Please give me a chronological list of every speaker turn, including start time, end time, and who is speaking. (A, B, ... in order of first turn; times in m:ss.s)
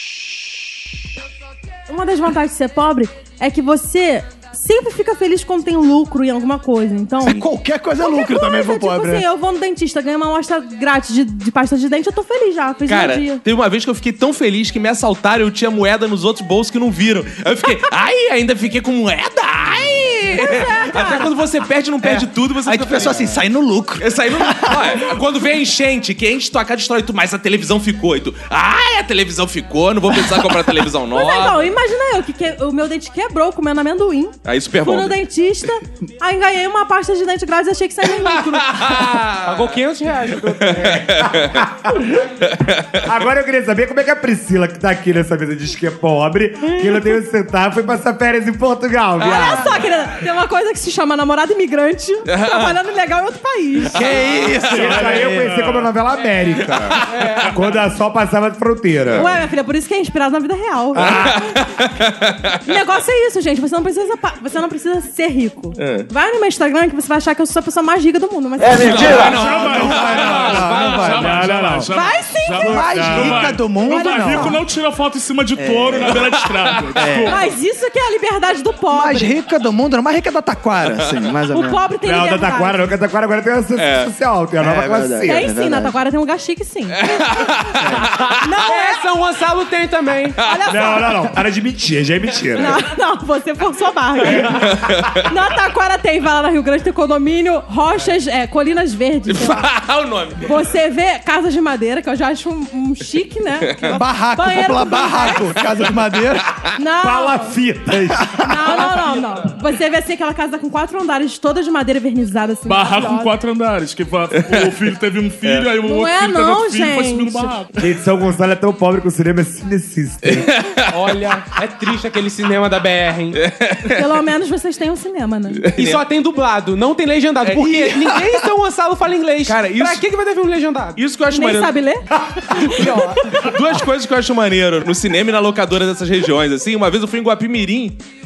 0:01.9-0:07.4 A
0:07.2-0:09.2 B
0:08.0-0:13.4 A
0:12.9-0:23.4 C
0:20.3-0:21.3 A
0:22.0-0:25.2 B
0:24.0-0:31.7 C
0:31.1-0:38.9 A
0:34.4-0:35.2 C
0:38.2-0:39.8 C
0:39.4-0:41.0 D
0:40.5-0:41.7 C
0:40.7-0:42.2 E
0:42.4-0:43.0 C
0:43.0-0:49.9 E
0:49.2-0:49.9 C
0:49.2-0:54.2 A
0:52.3-0:52.8 C
0:53.9-0:55.8 B
0:54.0-0:55.2 C
0:54.7-0:59.4 E
0:56.7-0:57.4 C
0:57.1-0:57.6 D
0:59.2-1:01.4 A
1:01.0-1:01.5 E
1:01.0-1:02.6 C
1:02.6-1:09.3 A
1:05.8-1:06.1 C
1:08.7-1:09.4 E
1:08.7-1:17.4 F
1:08.8-1:11.5 B
1:08.9-1:10.3 C
1:10.4-1:11.2 D
1:10.4-1:11.9 E
1:11.9-1:13.1 A
1:12.6-1:14.6 B
1:12.6-1:13.6 E
1:13.8-1:14.6 A
1:15.6-1:17.5 B
1:16.2-1:16.8 C
1:17.3-1:19.3 A
1:18.9-1:21.8 B
1:21.5-1:22.8 A
1:22.0-1:25.5 E
1:23.8-1:24.1 C
1:24.6-1:25.9 B
1:25.3-1:27.0 A
1:27.0-1:28.3 C
1:27.8-1:28.1 B
1:28.4-1:29.0 A
1:28.7-1:30.4 D
1:30.4-1:31.4 A
1:30.7-1:32.8 E
1:32.6-1:39.6 A
1:34.8-1:35.1 C
1:39.3-1:40.7 C
1:40.4-1:45.5 A
1:43.8-1:46.4 B
1:46.8-1:47.6 A
1:47.0-1:48.9 E
1:48.4-1:53.3 A
1:52.6-1:57.7 F
1:54.4-1:54.7 C
1:55.7-1:57.6 A
1:57.8-2:00.6 E
2:00.4-2:01.1 C
2:00.9-2:03.4 D
2:03.3-2:04.1 C
2:03.9-2:05.6 A
2:05.6-2:06.0 C
2:05.8-2:11.0 D
2:07.4-2:08.4 C
2:09.5-2:10.0 C
2:11.0-2:11.8 C
2:11.3-2:13.6 A
2:12.7-2:13.3 D
2:12.7-2:18.0 C